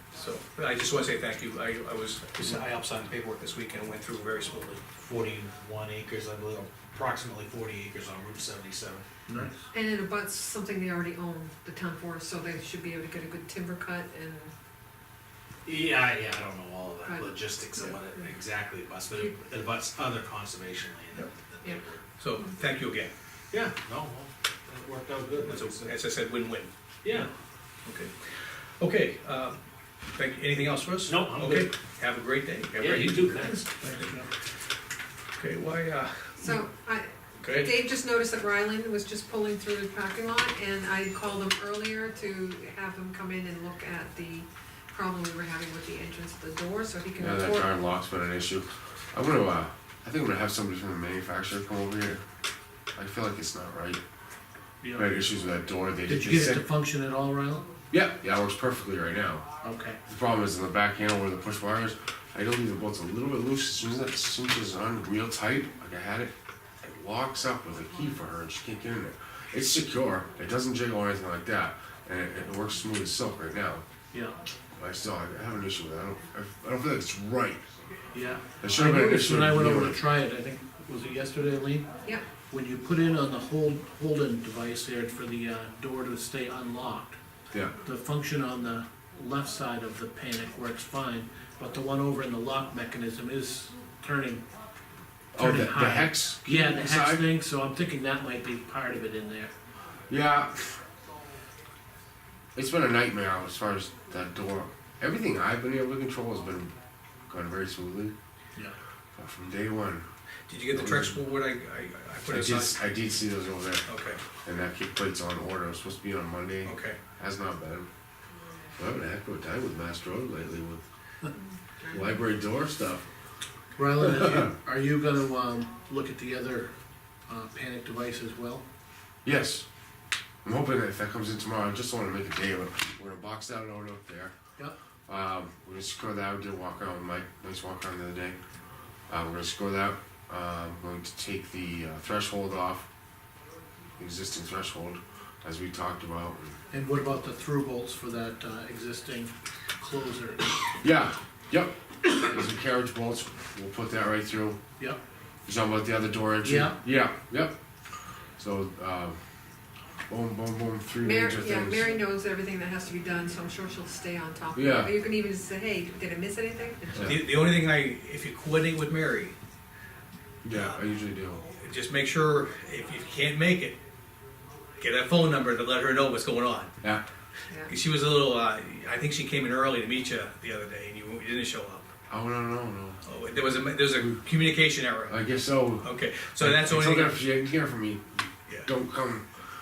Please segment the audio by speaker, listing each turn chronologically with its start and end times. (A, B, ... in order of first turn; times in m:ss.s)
0:00.1-0:04.8 A
0:04.9-0:09.0 B
0:09.3-0:09.5 C
0:09.7-0:14.5 D
0:15.6-0:22.0 B
0:17.0-0:18.2 D
0:22.2-0:23.1 A
0:23.5-0:26.0 B
0:25.4-0:26.7 A
0:27.0-0:27.3 B
0:27.8-0:29.6 A
0:30.1-0:33.6 A
0:31.0-0:31.7 B
0:32.7-0:33.6 B
0:33.4-0:34.3 C
0:35.4-0:36.6 A
0:36.4-0:47.7 D
0:37.4-0:37.7 A
0:47.2-0:52.2 E
0:52.9-0:54.0 E
0:54.8-0:55.1 C
0:54.9-0:56.6 E
0:56.1-0:57.7 C
0:57.9-0:59.4 E
0:59.6-1:00.0 C
1:00.1-1:13.8 E
1:14.8-1:17.6 E
1:18.1-1:21.9 C
1:18.6-1:20.0 E
1:22.5-1:27.2 C
1:27.8-1:34.4 C
1:35.3-1:37.2 E
1:35.4-1:39.5 C
1:40.1-1:40.8 E
1:42.5-1:46.7 E
1:47.3-1:48.1 E
1:49.2-1:50.0 E
1:50.5-1:52.8 A
1:50.7-1:51.2 E
1:52.3-1:53.8 E
1:53.9-1:54.2 A
1:54.4-1:57.9 E
1:56.6-1:57.0 A
1:58.8-2:00.8 E
2:01.3-2:02.1 D
2:01.9-2:03.0 E
2:03.8-2:06.7 C
2:04.1-2:04.4 E
2:07.3-2:08.6 C
2:09.2-2:09.6 E
2:10.4-2:14.3 E
2:15.1-2:18.4 E
2:19.1-2:22.8 E
2:24.0-2:26.6 E
2:26.7-2:30.6 C
2:30.8-2:34.6 E
2:35.4-2:37.6 E
2:36.4-2:36.8 C
2:38.4-2:39.2 E
2:40.1-2:41.9 E
2:41.0-2:47.2 D
2:44.5-2:44.9 E
2:47.0-2:49.4 A
2:50.4-2:51.4 E
2:51.5-2:53.8 A
2:54.8-2:56.7 A
2:57.7-3:01.9 A
3:02.1-3:03.0 E
3:03.0-3:05.2 A
3:05.1-3:08.0 E
3:05.8-3:07.2 A
3:08.6-3:09.3 E